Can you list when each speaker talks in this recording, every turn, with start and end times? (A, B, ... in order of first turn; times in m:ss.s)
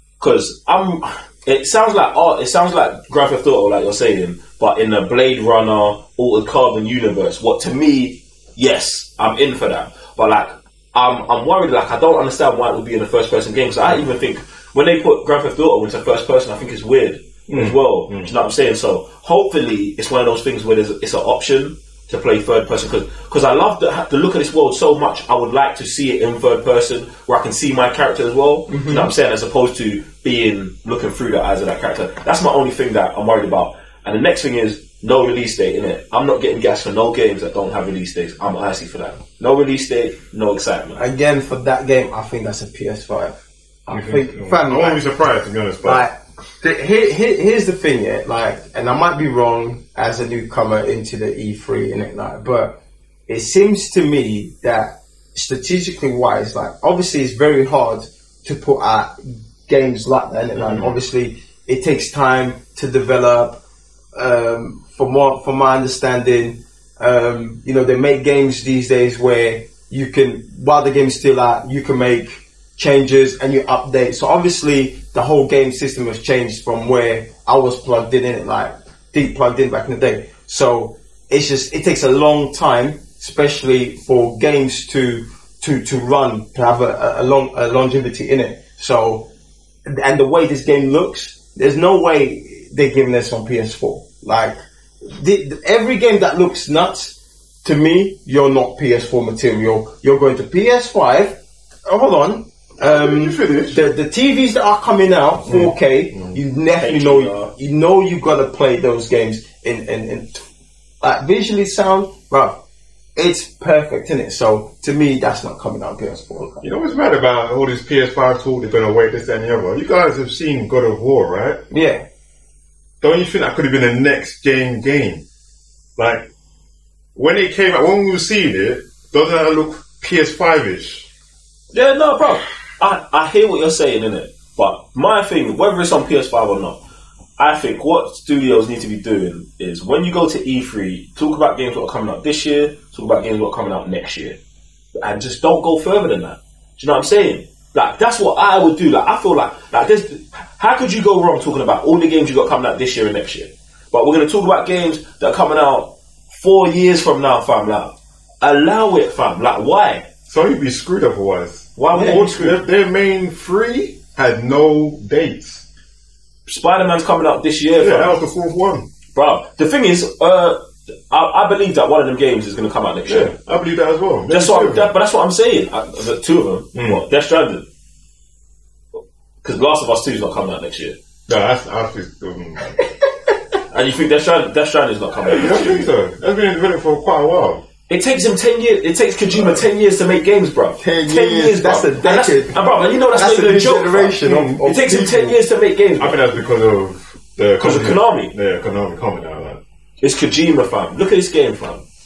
0:00.2-0:41.0 A
0:17.5-0:18.3 B
0:28.7-0:29.1 C
0:41.0-0:45.0 C
0:43.9-0:46.1 B
0:45.8-1:03.6 C
1:00.5-1:01.0 B
1:04.1-1:29.3 C
1:29.8-1:50.4 C
1:42.8-1:43.8 B
1:45.4-1:46.4 B
1:46.8-1:47.5 A
1:51.0-1:52.6 C
1:53.2-1:56.7 C
1:56.6-2:01.6 B
2:01.7-2:02.0 C
2:03.0-2:05.2 B
2:06.0-2:06.3 B
2:07.1-2:11.1 B
2:11.7-2:16.8 A
2:17.4-2:24.4 A
2:25.0-2:40.1 A
2:40.3-2:45.6 B
2:41.8-2:42.6 A
2:41.9-2:42.2 C
2:46.5-2:48.2 A
2:47.8-2:48.9 B
2:49.1-2:53.3 A
2:53.1-2:54.9 B
2:54.3-2:57.7 A
2:56.7-2:57.0 B
2:59.4-3:01.0 A
3:01.3-3:02.8 B
3:03.7-3:05.9 A
3:05.3-3:07.6 B
3:07.9-3:16.2 A
3:10.8-3:15.4 C
3:14.2-3:14.6 B
3:16.0-3:19.6 B
3:17.6-3:18.3 A
3:20.0-3:21.8 A